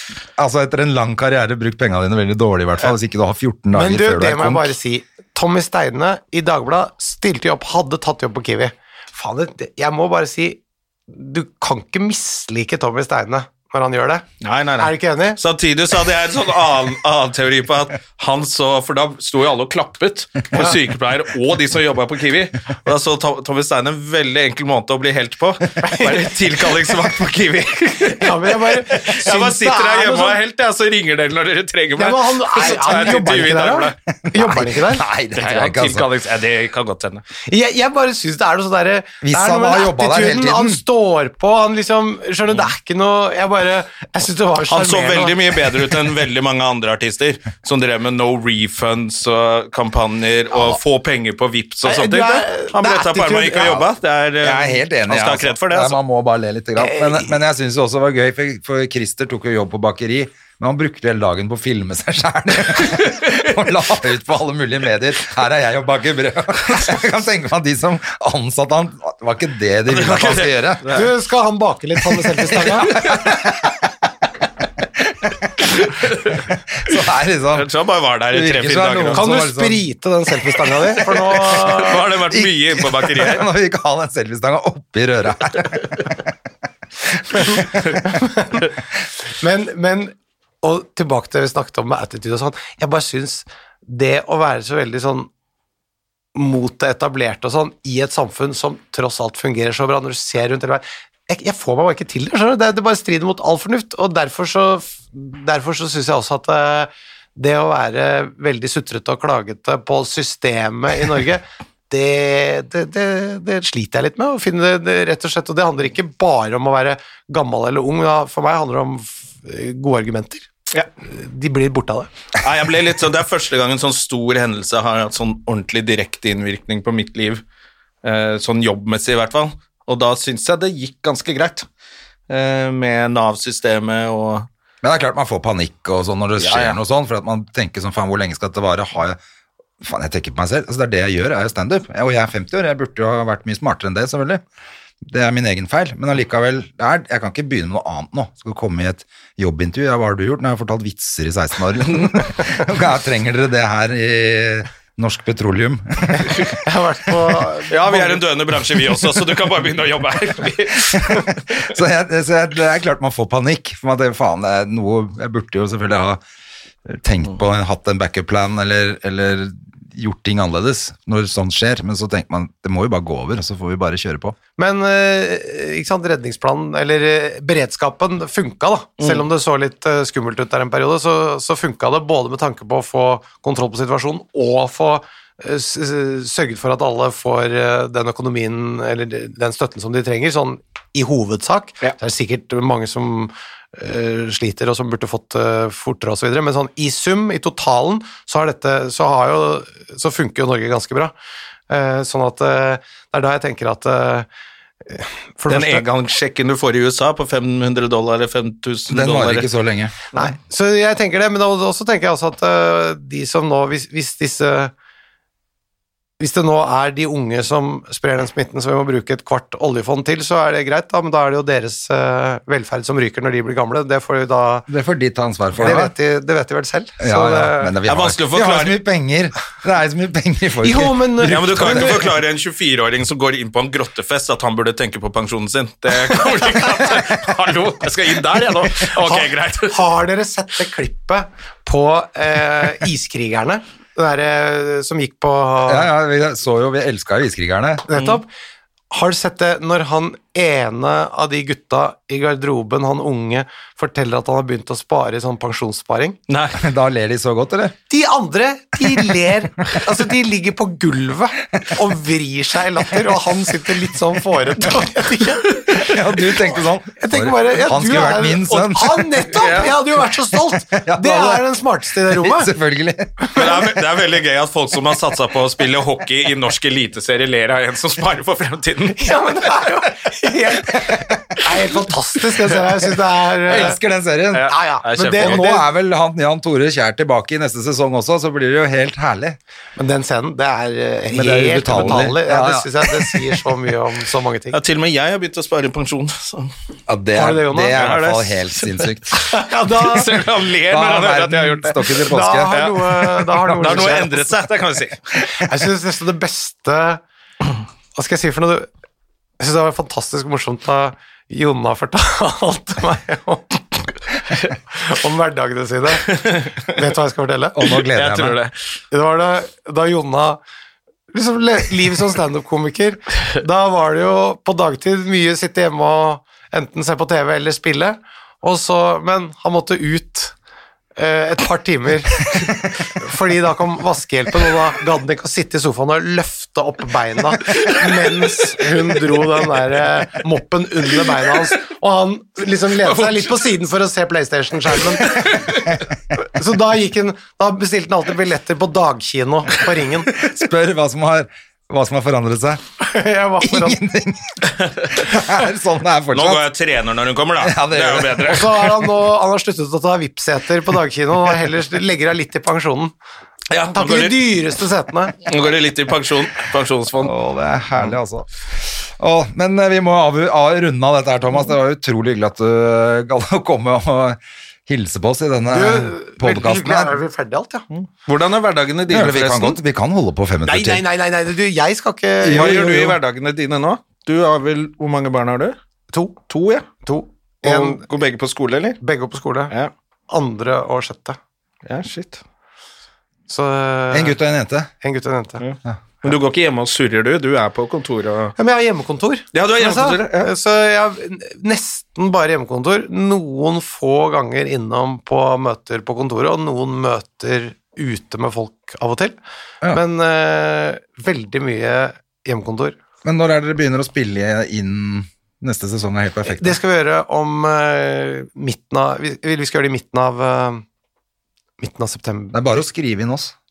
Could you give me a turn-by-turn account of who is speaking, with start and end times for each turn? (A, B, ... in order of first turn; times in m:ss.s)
0:00.4-0:04.7 A
0:03.7-0:14.2 B
0:14.4-0:34.0 C
0:14.8-0:15.4 B
0:25.8-0:26.3 B
0:28.2-0:30.4 B
0:32.0-0:35.0 B
0:34.2-0:36.1 A
0:35.3-0:37.2 C
0:37.4-0:45.6 B
0:39.2-0:40.8 A
0:44.7-0:56.0 C
0:51.8-0:53.8 B
0:54.4-1:10.9 A
0:56.8-0:57.3 B
1:09.9-1:11.1 C
1:10.9-1:13.0 B
1:12.8-1:13.7 A
1:12.9-1:13.3 C
1:15.8-1:16.4 C
1:16.3-1:17.7 A
1:17.5-1:19.2 C
1:18.3-1:19.8 A
1:19.1-1:22.1 B
1:21.4-1:23.4 C
1:22.3-1:26.3 A
1:27.3-1:27.7 A
1:27.4-1:28.7 B
1:29.2-1:35.3 B
1:36.3-2:00.4 B
2:01.0-2:02.1 B
2:02.4-2:07.4 C
2:08.0-2:11.7 C
2:12.3-2:14.5 C
2:14.8-2:19.2 A
2:16.4-2:16.8 C
2:19.8-2:24.4 A
2:25.0-2:36.5 A
2:36.2-2:38.2 B
2:37.7-2:41.7 C
2:40.9-2:46.2 A
2:46.8-2:54.4 A
2:54.6-3:21.1 B
3:21.7-3:24.3 B
3:24.9-3:25.8 B
3:25.5-3:29.5 C
3:28.9-3:29.9 A
3:30.1-3:34.7 B
3:36.2-3:44.7 B
3:44.7-3:45.9 A
3:45.6-3:47.8 B
3:47.0-3:52.0 A
3:47.8-3:48.8 C
3:50.6-3:52.0 B
3:51.2-3:59.8 C
3:58.9-4:05.9 B
4:05.7-4:07.9 A
4:07.9-4:08.3 B
4:07.9-4:08.2 C
4:08.9-4:16.2 B
4:16.3-4:16.6 C
4:16.6-4:17.7 A
4:17.9-4:26.0 B
4:25.7-4:29.2 A
4:27.0-4:32.5 B
4:29.3-4:29.7 C
4:30.7-4:33.4 A
4:33.4-4:39.1 C
4:39.0-4:43.8 B
4:43.5-4:44.5 A
4:44.3-4:45.4 C
4:44.5-4:45.6 B
4:45.2-4:49.4 A
4:49.8-4:54.6 B
4:51.1-4:53.2 A
4:51.8-4:52.1 C
4:54.5-4:56.5 C
4:56.9-4:59.2 A
4:57.1-4:58.1 B
4:57.7-5:05.0 C
4:59.3-5:00.1 B
5:00.7-5:02.6 A
5:02.1-5:04.2 B
5:03.4-5:04.1 A
5:05.4-5:07.0 B
5:07.9-5:08.7 B
5:09.4-5:13.6 B
5:14.7-5:17.6 B
5:16.0-5:16.6 C
5:17.5-5:18.4 A
5:17.9-5:18.5 C
5:18.9-5:20.4 B
5:21.1-5:30.3 B
5:31.0-5:45.4 B
5:37.4-5:38.4 C
5:41.0-5:41.4 C
5:42.8-5:43.4 C
5:44.9-5:45.8 C
5:46.2-5:50.1 B
5:50.2-5:52.6 A
5:52.8-5:53.8 B
5:53.4-5:56.4 A
5:54.6-5:54.9 C
5:56.1-5:58.8 C
5:57.4-5:58.4 A
5:58.3-6:02.9 B
6:03.5-6:04.3 C
6:03.7-6:05.2 B
6:05.2-6:07.1 C
6:07.0-6:17.0 A
6:15.5-6:17.6 B
6:17.7-6:19.6 C
6:18.9-6:20.8 A
6:20.4-6:22.8 B
6:22.2-6:23.0 A
6:22.3-6:25.6 C
6:25.9-6:26.2 B
6:26.3-6:26.7 C
6:26.8-6:27.8 B
6:27.4-6:28.8 C
6:28.8-6:29.5 B
6:30.1-6:31.2 B
6:31.6-6:32.2 C
6:33.3-6:34.2 B
6:33.9-6:34.7 A
6:34.8-6:35.4 B
6:35.4-6:38.3 C
6:35.6-6:36.1 A
6:38.4-6:49.2 B
6:39.3-6:40.3 C
6:49.7-6:52.8 B
6:53.0-6:56.6 A
6:56.2-7:00.6 B
7:01.6-7:02.4 B
7:02.3-7:03.3 A